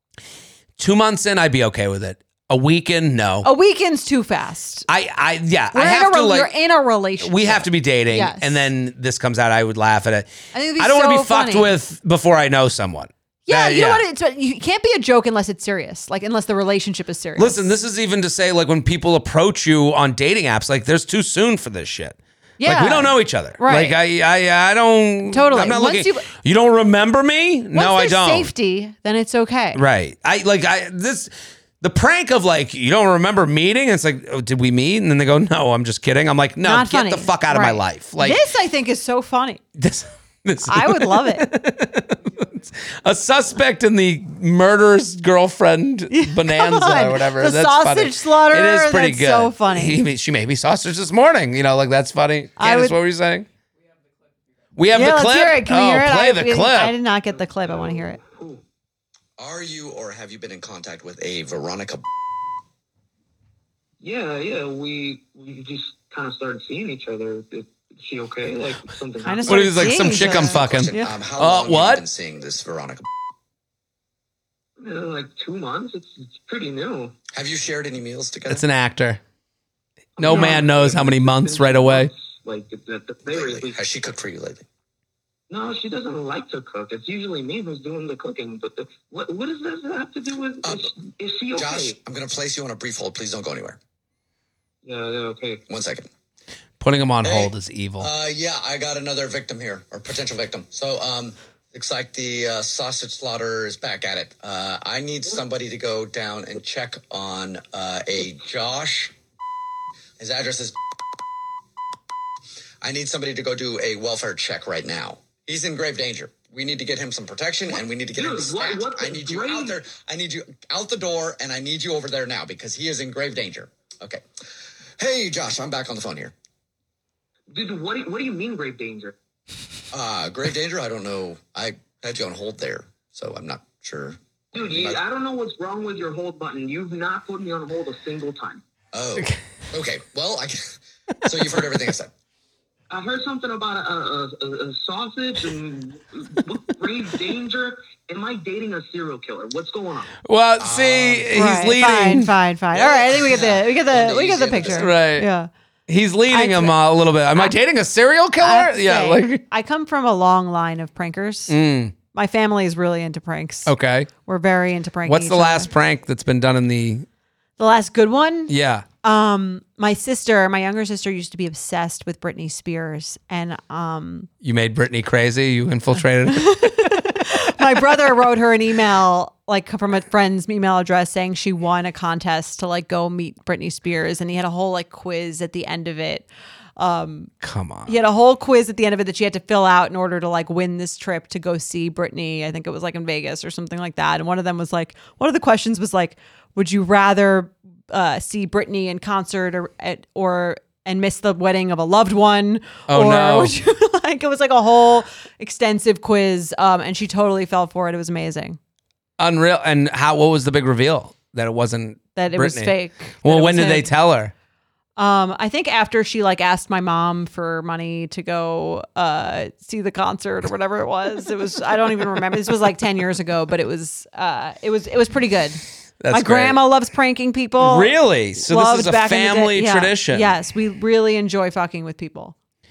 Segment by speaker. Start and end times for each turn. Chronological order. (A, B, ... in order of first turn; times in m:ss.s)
0:00.8-0:03.5 A
0:03.4-0:04.9 B
0:04.9-0:06.5 A
0:05.7-0:08.7 B
0:07.2-0:14.0 A
0:10.5-0:11.8 B
0:13.5-0:17.7 B
0:17.4-0:28.5 A
0:22.6-0:24.0 B
0:25.3-0:26.2 B
0:27.7-0:29.8 B
0:29.7-0:38.4 A
0:36.6-0:39.6 B
0:39.8-0:53.5 A
0:40.6-0:41.4 B
0:46.1-0:50.0 B
0:52.6-0:53.0 B
0:54.8-0:56.9 A
0:54.9-0:58.2 B
0:57.3-0:58.6 C
0:59.4-1:02.0 D
1:04.0-1:10.2 C
1:09.2-1:11.2 B
1:09.4-1:12.0 A
1:10.2-1:13.0 D
1:14.8-1:17.2 C
1:17.3-1:18.6 D
1:18.5-1:19.2 A
1:20.2-1:23.8 C
1:20.2-1:22.1 A
1:20.3-1:20.6 B
1:23.3-1:24.6 D
1:25.5-1:32.0 C
1:30.6-1:30.9 D
1:31.6-1:33.8 D
1:34.8-1:35.6 C
1:35.7-1:36.1 D
1:36.8-1:38.1 A
1:37.2-1:49.1 D
1:50.2-1:50.8 D
1:52.8-2:04.2 D
1:57.7-1:59.8 C
2:05.0-2:06.3 D
2:07.5-2:09.1 C
2:09.9-2:15.0 D
2:14.5-2:18.6 C
2:18.9-2:22.1 D
2:22.9-2:30.1 C
2:30.2-2:32.3 A
2:30.6-2:31.3 D
2:31.3-2:35.5 B
2:32.7-2:34.9 D
2:34.6-2:35.3 A
2:35.9-2:39.4 A
2:36.3-2:36.8 B
2:38.4-2:41.6 B
2:41.5-2:41.9 A
2:42.1-2:45.7 B
2:43.6-2:44.1 A
2:45.0-2:47.1 A
2:47.6-2:48.5 B
2:48.5-2:48.8 A
2:49.0-2:54.3 B
2:54.4-2:57.2 A
2:56.3-3:07.3 B
3:07.4-3:08.0 A
3:07.9-3:28.6 B
3:22.9-3:23.5 A
3:29.2-3:34.3 A
3:32.2-3:33.9 B
3:35.0-3:52.3 B
3:46.0-3:46.6 A
3:47.6-3:50.3 A